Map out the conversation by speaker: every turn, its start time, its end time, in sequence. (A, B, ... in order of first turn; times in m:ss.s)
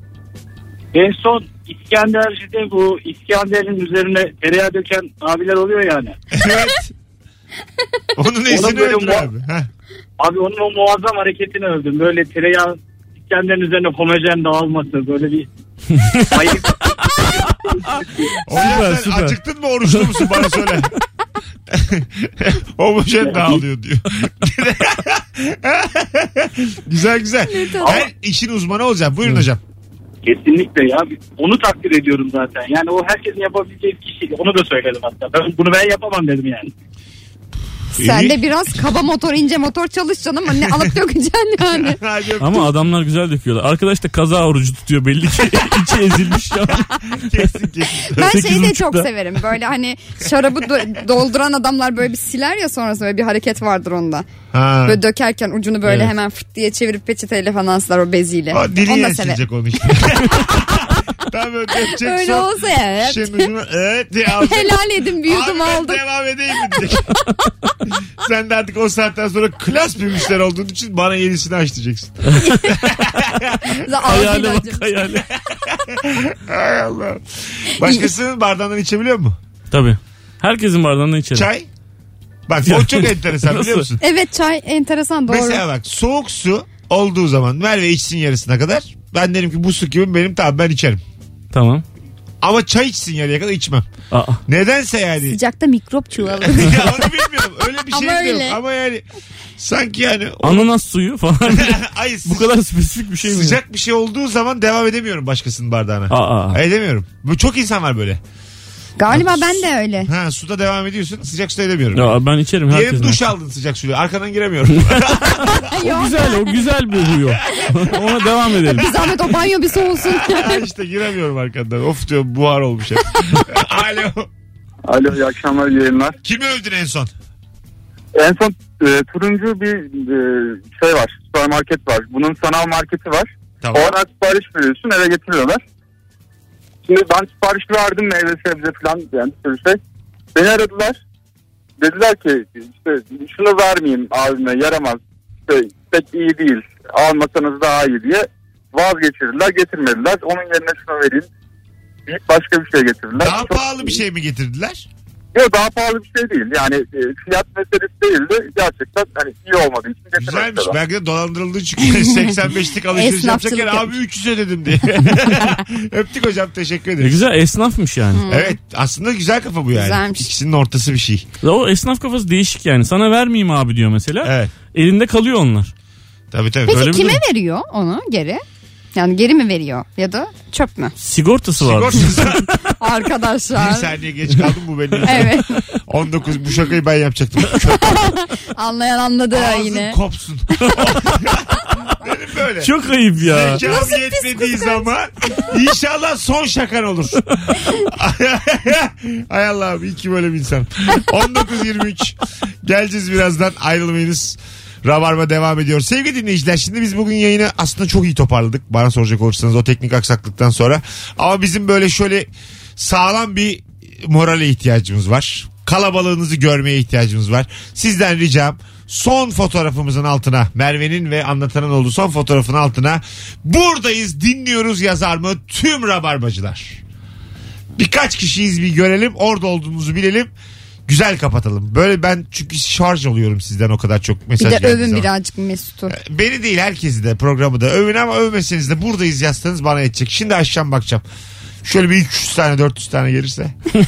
0:00.9-0:06.1 A
0:06.3-0:06.9 B
0:08.2-0:09.7 B
0:08.5-0:09.3 A
0:10.2-0:15.5 A
0:15.9-0:16.4 C
0:16.3-0:18.4 A
0:18.4-0:20.9 B
0:18.5-0:19.3 C
0:19.9-0:20.2 C
0:21.7-0:29.6 B
0:27.5-0:28.0 D
0:30.2-0:36.7 A
0:37.9-0:38.4 B
0:38.0-0:42.0 D
0:41.7-0:42.7 B
0:42.4-0:46.9 C
0:46.7-0:48.8 B
0:48.1-0:54.3 D
0:48.3-0:49.0 C
0:54.5-0:55.0 B
0:54.8-0:59.4 D
0:58.5-1:07.1 B
1:00.4-1:00.9 D
1:01.8-1:03.5 D
1:04.4-1:06.0 D
1:08.2-1:13.8 B
1:13.8-1:14.8 D
1:14.0-1:15.2 C
1:15.3-1:19.4 B
1:17.8-1:18.1 D
1:19.7-1:21.5 C
1:21.3-1:21.7 B
1:22.5-1:24.0 B
1:22.6-1:23.9 C
1:24.0-1:25.6 D
1:25.3-1:31.0 B
1:31.5-1:31.8 C
1:32.4-1:33.8 B
1:34.1-1:34.4 C
1:34.5-1:35.4 B
1:35.2-1:37.3 D
1:36.2-1:39.0 B
1:37.9-1:38.6 D
1:39.6-1:40.7 B
1:40.4-1:43.6 C
1:41.4-1:42.5 B
1:43.2-1:48.2 B
1:46.1-1:46.6 C
1:49.0-1:50.1 D
1:49.1-1:55.6 B
1:51.9-1:53.2 C
1:55.7-1:56.6 D
1:55.8-1:58.9 C
1:57.1-2:04.3 B
1:58.7-2:00.6 D
2:05.6-2:06.0 E
2:06.2-2:07.1 B
2:10.7-2:12.0 E
2:13.6-2:14.0 B
2:14.4-2:15.0 E
2:16.9-2:19.8 E
2:21.9-2:22.6 E
2:23.4-2:24.2 E
2:27.3-2:28.2 E
2:33.1-2:34.9 B
2:35.7-2:40.2 E
2:40.2-2:47.2 B
2:42.0-2:42.3 D
2:42.9-2:43.9 D
2:47.0-2:48.2 C
2:48.1-2:48.6 D
2:48.3-2:51.2 B
2:49.7-2:50.3 D
2:51.4-2:55.7 C
2:54.2-2:54.5 B
2:56.3-2:57.0 B
2:56.7-2:57.2 C
2:56.7-2:58.4 D
2:58.9-3:00.9 D
3:01.0-3:02.5 C
3:01.6-3:02.5 B
3:02.8-3:03.9 D
3:03.5-3:08.0 B
3:05.0-3:05.6 D
3:07.6-3:10.0 D
3:09.3-3:46.8 B
3:10.7-3:11.0 C
3:12.6-3:13.6 C
3:13.5-3:15.4 D
3:47.8-3:50.3 B
3:50.9-3:55.1 B
3:54.4-3:55.9 D
3:55.9-4:01.0 B
4:01.6-4:03.5 B